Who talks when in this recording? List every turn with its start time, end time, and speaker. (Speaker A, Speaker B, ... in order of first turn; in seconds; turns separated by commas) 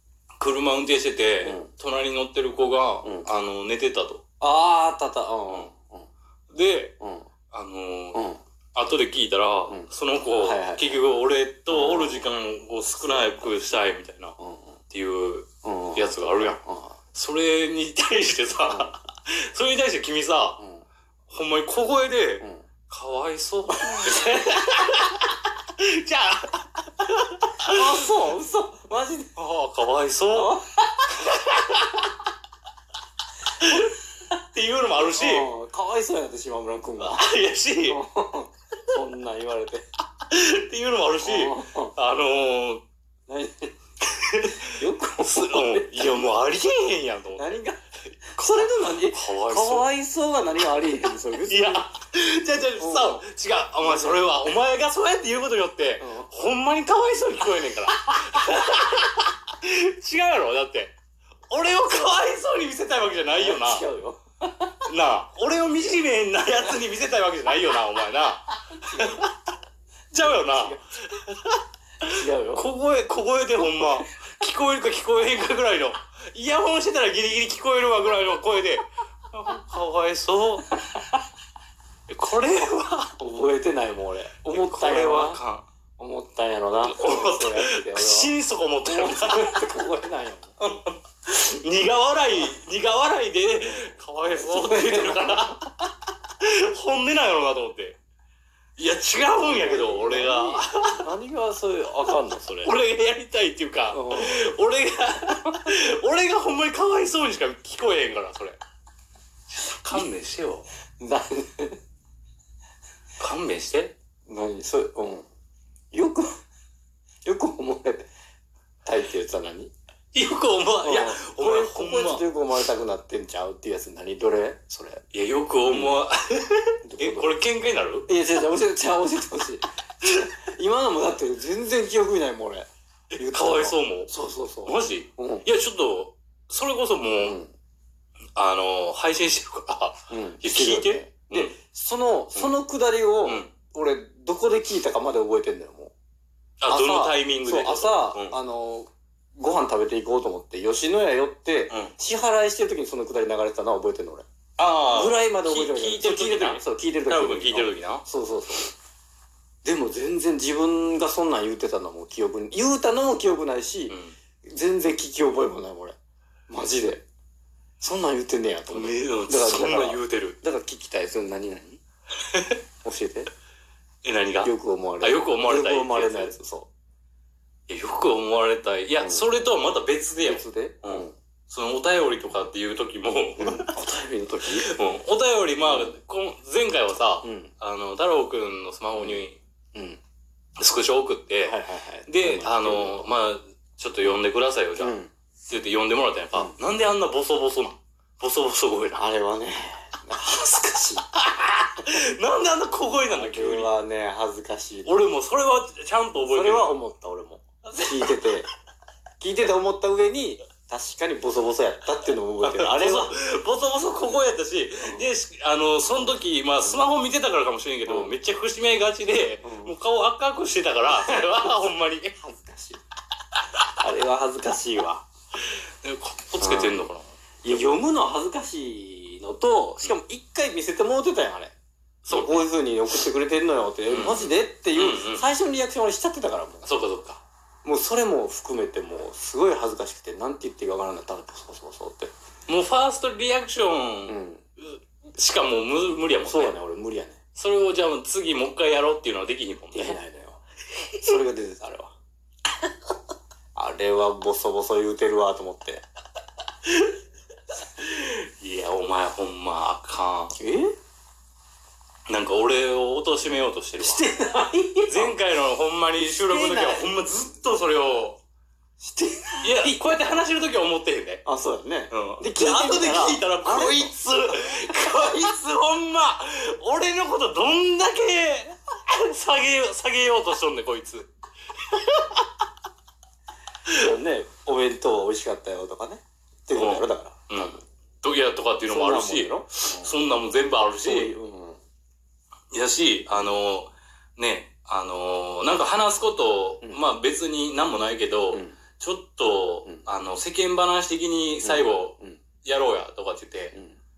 Speaker A: 0.4-4.2, Speaker B: 1.4-1.7, Speaker B: 3.0-3.3, Speaker B: 4.4-6.1, Speaker A: 6.5-6.9, Speaker B: 7.0-7.3, Speaker A: 7.5-14.3, Speaker B: 8.1-8.4, Speaker B: 9.7-11.0, Speaker B: 11.7-12.3, Speaker B: 12.9-13.7, Speaker B: 14.4-14.8, Speaker A: 14.9-16.6, Speaker B: 15.6-17.0, Speaker A: 17.1-20.6, Speaker B: 18.6-18.9, Speaker B: 20.6-20.9, Speaker A: 21.3-28.0, Speaker B: 23.8-24.5, Speaker B: 27.6-29.3, Speaker A: 29.4-30.6, Speaker B: 30.3-31.4, Speaker A: 31.1-32.0, Speaker A: 33.6-35.5, Speaker B: 35.0-37.2, Speaker A: 37.0-38.0, Speaker B: 37.9-39.8, Speaker A: 40.2-42.8, Speaker B: 41.2-41.9, Speaker B: 43.3-43.7, Speaker A: 44.0-47.6, Speaker B: 44.6-46.3, Speaker B: 47.4-47.8, Speaker B: 48.4-51.9, Speaker A: 48.4-49.9, Speaker A: 51.4-60.9, Speaker B: 52.8-53.2, Speaker B: 53.8-54.3, Speaker B: 56.0-56.3, Speaker A: 61.5-63.9, Speaker B: 63.3-64.7, Speaker A: 64.8-69.3, Speaker B: 68.9-69.2, Speaker A: 70.1-80.8, Speaker B: 70.2-70.8, Speaker B: 72.1-72.6, Speaker A: 82.1-83.1, Speaker B: 83.2-85.4, Speaker A: 84.4-85.6, Speaker B: 86.0-90.5, Speaker A: 86.9-89.7, Speaker A: 90.6-98.0, Speaker B: 94.3-95.6, Speaker A: 98.8-101.1, Speaker B: 99.4-102.7, Speaker A: 102.6-108.6, Speaker B: 103.9-104.4, Speaker A: 109.5-110.7, Speaker B: 111.0-111.8, Speaker A: 113.2-113.9, Speaker B: 114.3-115.2, Speaker B: 115.9-116.3, Speaker B: 117.2-118.1, Speaker B: 118.8-119.7, Speaker A: 120.1-122.2, Speaker B: 120.8-125.0, Speaker A: 125.1-128.1, Speaker B: 125.6-126.0, Speaker B: 126.8-127.4, Speaker B: 128.1-135.4, Speaker A: 133.1-134.1, Speaker A: 134.6-137.4, Speaker B: 137.2-137.5, Speaker A: 138.3-141.5, Speaker B: 140.1-145.9, Speaker A: 143.2-143.5, Speaker A: 146.6-148.4, Speaker B: 146.7-154.2, Speaker A: 154.6-158.0, Speaker B: 154.9-158.7, Speaker B: 159.6-165.9, Speaker A: 163.9-164.1, Speaker B: 166.5-167.0, Speaker B: 167.8-171.8, Speaker A: 168.7-170.4, Speaker A: 172.2-172.6, Speaker B: 172.8-173.3, Speaker A: 174.0-176.3, Speaker B: 174.4-176.7, Speaker A: 177.7-183.7, Speaker B: 179.0-179.3, Speaker B: 180.2-181.1, Speaker B: 183.4-184.7, Speaker A: 184.5-189.4, Speaker B: 185.6-186.0, Speaker B: 187.2-187.5, Speaker B: 188.9-189.2, Speaker B: 189.7-190.0, Speaker A: 190.6-194.9, Speaker B: 191.4-193.1, Speaker B: 194.8-195.1, Speaker A: 195.5-199.1, Speaker B: 199.0-201.1, Speaker A: 201.2-203.7, Speaker B: 203.1-205.0, Speaker A: 204.8-206.8, Speaker B: 206.3-208.5, Speaker A: 207.7-208.2, Speaker B: 209.2-213.1, Speaker A: 212.4-222.2, Speaker B: 214.8-215.1, Speaker B: 215.9-216.9, Speaker B: 217.8-218.2, Speaker B: 219.4-219.7, Speaker B: 220.9-221.6, Speaker B: 222.2-222.8, Speaker B: 223.8-225.0, Speaker A: 225.4-227.7, Speaker B: 226.4-226.8, Speaker B: 227.4-231.5, Speaker A: 232.1-232.5, Speaker B: 232.1-236.7, Speaker A: 233.9-235.2, Speaker A: 236.6-237.2, Speaker B: 237.6-242.1, Speaker A: 242.5-246.6, Speaker B: 244.1-244.4, Speaker B: 246.2-247.2, Speaker A: 247.3-250.0, Speaker B: 249.7-250.4, Speaker B: 251.0-251.9, Speaker B: 253.5-255.8, Speaker A: 257.8-260.4, Speaker B: 260.4-260.7, Speaker A: 262.1-264.1, Speaker B: 263.8-265.2, Speaker A: 264.9-268.2, Speaker B: 266.0-266.9, Speaker B: 268.8-269.8, Speaker A: 269.4-271.2, Speaker B: 271.2-275.4, Speaker A: 271.9-282.3, Speaker B: 283.7-287.6, Speaker A: 286.5-291.1, Speaker B: 288.6-290.0, Speaker B: 290.8-291.6, Speaker A: 292.5-303.6, Speaker B: 293.1-293.4, Speaker B: 298.3-298.6, Speaker B: 301.4-302.2